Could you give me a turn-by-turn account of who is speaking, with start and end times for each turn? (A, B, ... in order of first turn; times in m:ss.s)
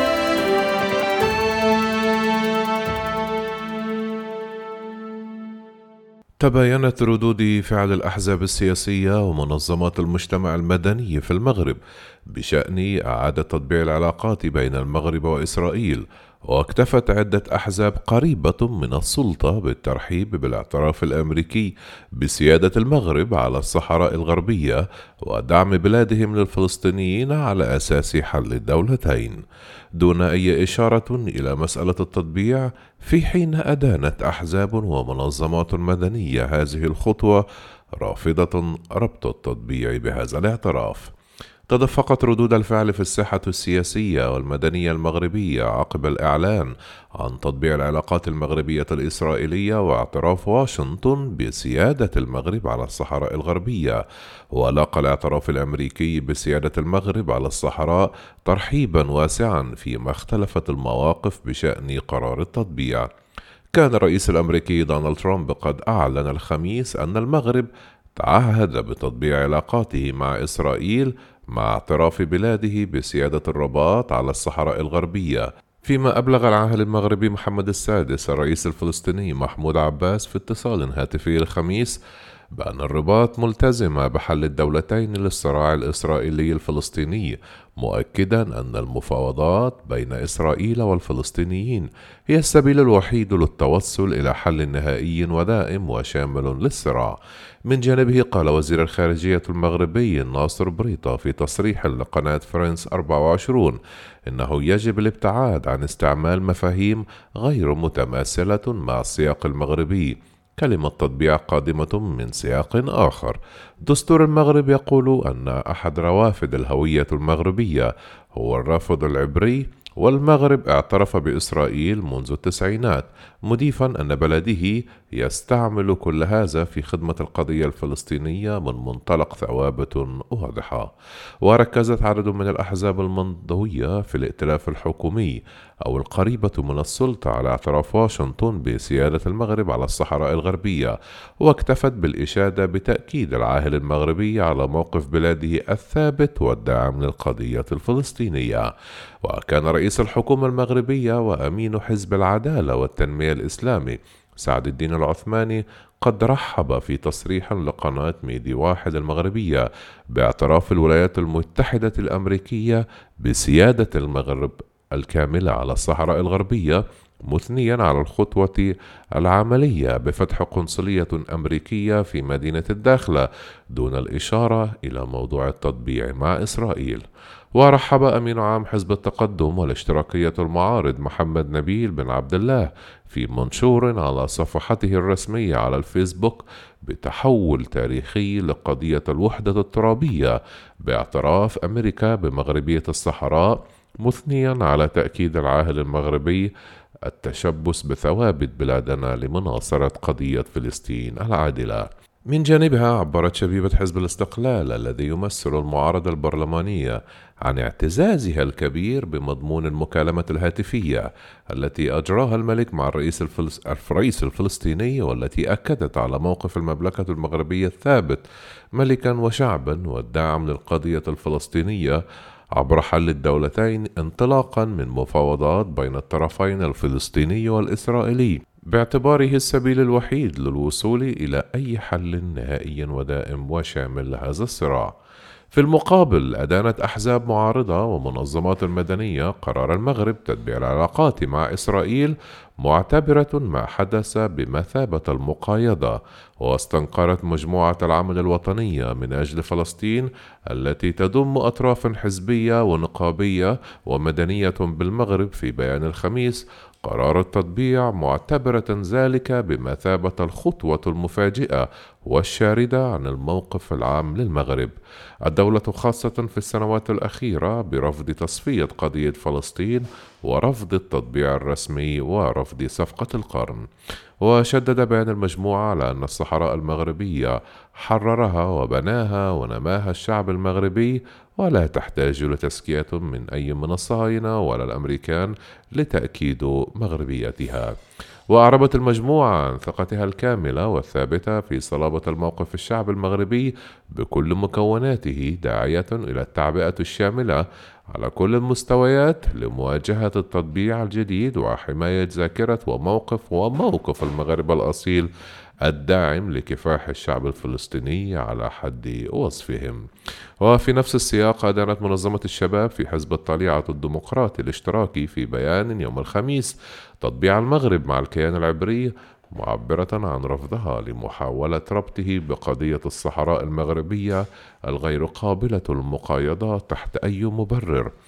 0:06.4-0:11.8 A
0:12.3-0:29.4 A
0:30.0-0:37.4 A
0:38.0-0:41.1 A
0:41.7-0:54.0 A
0:54.5-1:03.1 A
1:03.7-1:22.0 A
1:22.6-2:28.7 A
2:29.2-2:57.0 A
2:57.6-3:16.5 A
3:17.0-3:38.2 A
3:38.8-3:42.0 A
3:42.6-3:54.9 A
3:55.5-4:24.7 A
4:25.2-4:33.7 A
4:34.2-4:47.7 A
4:48.3-4:57.4 A
4:57.9-5:05.1 A
5:05.6-5:09.8 A
5:10.4-5:27.9 A